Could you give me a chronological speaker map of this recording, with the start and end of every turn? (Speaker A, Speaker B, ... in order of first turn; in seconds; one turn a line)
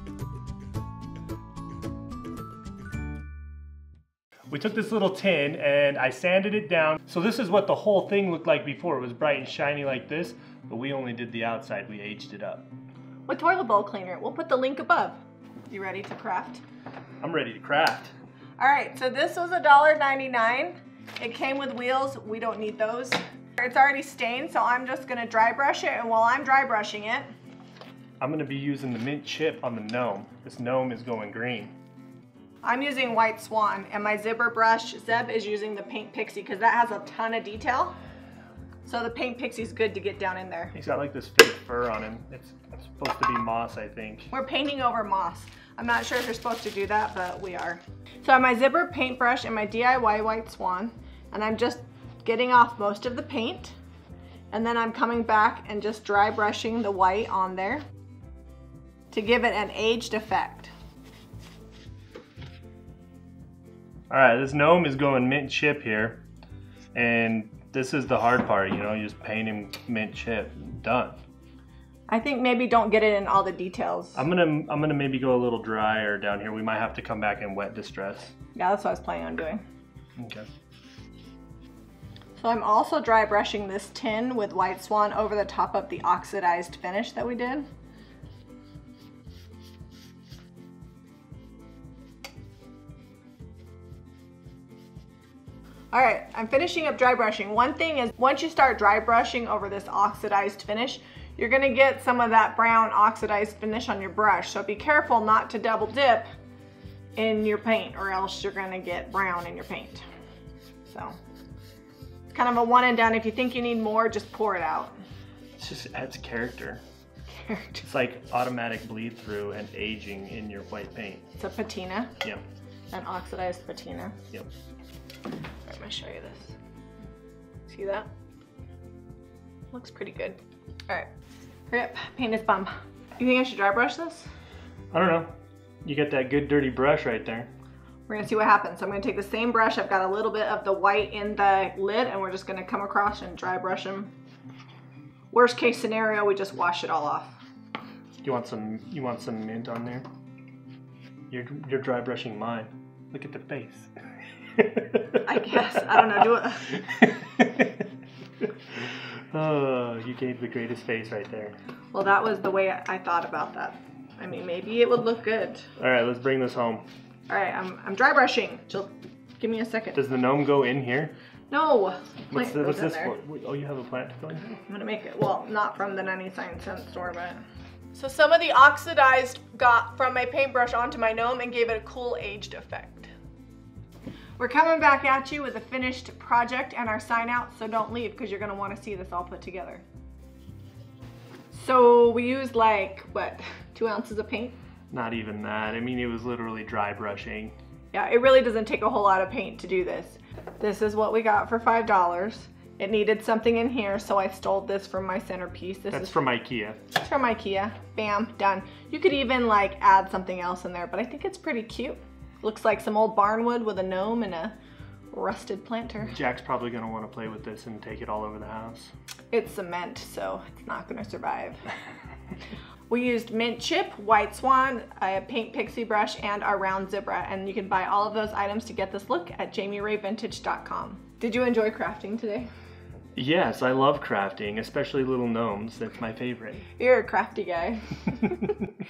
Speaker A: 4.5-12.7
Speaker B: 13.3-15.2
Speaker B: 15.7-16.6
Speaker A: 17.2-18.1
Speaker B: 18.6-27.3
Speaker A: 28.2-31.7
Speaker B: 32.6-37.9
Speaker B: 38.8-40.7
Speaker A: 40.7-44.3
Speaker B: 44.3-53.7
Speaker B: 54.5-57.8
Speaker B: 59.1-60.7
Speaker A: 64.1-66.2
Speaker A: 66.9-71.2
Speaker B: 72.1-74.2
Speaker A: 74.1-78.3
Speaker B: 78.5-79.6
Speaker A: 80.2-80.5
Speaker B: 82.4-87.7
Speaker B: 95.9-106.2
Speaker B: 107.2-110.0
Speaker B: 110.8-111.2
Speaker B: 112.3-114.9
Speaker A: 115.6-116.8
Speaker B: 117.4-117.8
Speaker A: 117.8-121.3
Speaker B: 121.4-122.2
Speaker B: 122.9-124.2
Speaker B: 125.7-126.5
Speaker B: 127.7-128.1
Speaker B: 129.7-130.4
Speaker B: 131.7-134.3
Speaker A: 134.9-135.3
Speaker A: 135.8-137.5
Speaker B: 138.1-144.1
Speaker B: 145.3-147.3
Speaker A: 148.2-150.1
Speaker A: 151.3-153.9
Speaker A: 154.6-155.2
Speaker B: 155.2-156.8
Speaker A: 156.7-157.8
Speaker A: 158.8-161.5
Speaker B: 161.9-165.7
Speaker A: 165.8-166.8
Speaker B: 167.3-170.0
Speaker A: 169.9-171.1
Speaker B: 171.5-173.1
Speaker A: 172.3-174.6
Speaker B: 174.7-177.4
Speaker B: 177.9-183.1
Speaker B: 184.4-189.8
Speaker B: 191.5-194.5
Speaker A: 194.9-197.6
Speaker B: 197.9-206.2
Speaker A: 205.9-206.8
Speaker B: 206.9-214.5
Speaker B: 215.1-216.2
Speaker A: 216.1-218.9
Speaker B: 219.3-221.6
Speaker B: 222.9-232.5
Speaker A: 233.2-236.7
Speaker B: 236.8-238.6